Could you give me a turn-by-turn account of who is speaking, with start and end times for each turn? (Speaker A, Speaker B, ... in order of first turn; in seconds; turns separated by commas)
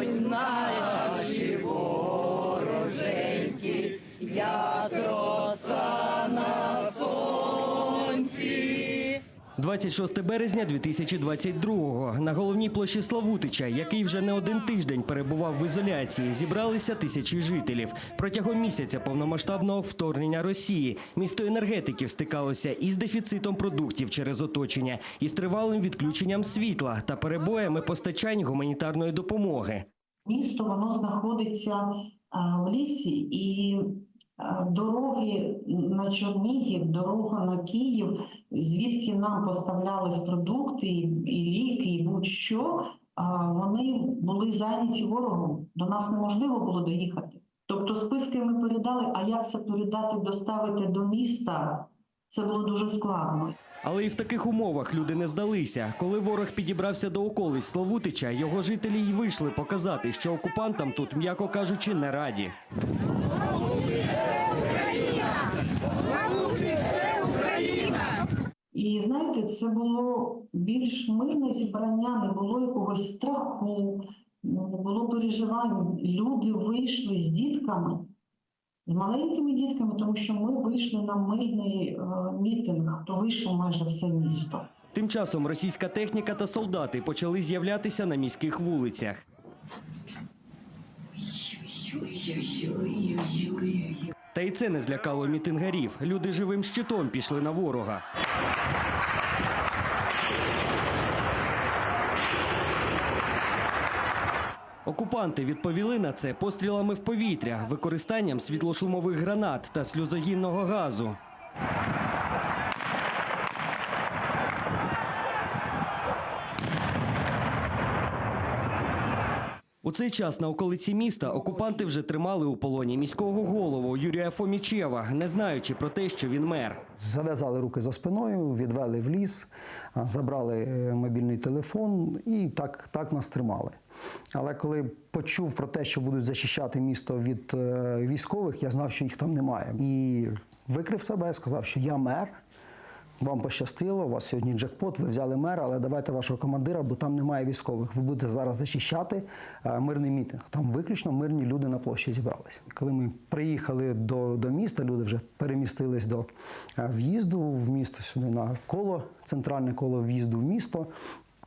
Speaker A: 9.6-29.9, Speaker B: 30.2-53.6, Speaker A: 53.8-62.5, Speaker B: 68.7-78.1, Speaker B: 78.9-84.7, Speaker A: 84.9-89.2, Speaker B: 92.0-93.9, Speaker A: 94.3-98.0, Speaker A: 104.8-111.2, Speaker A: 119.8-126.8, Speaker C: 127.0-133.8, Speaker C: 134.3-142.4, Speaker C: 143.2-160.9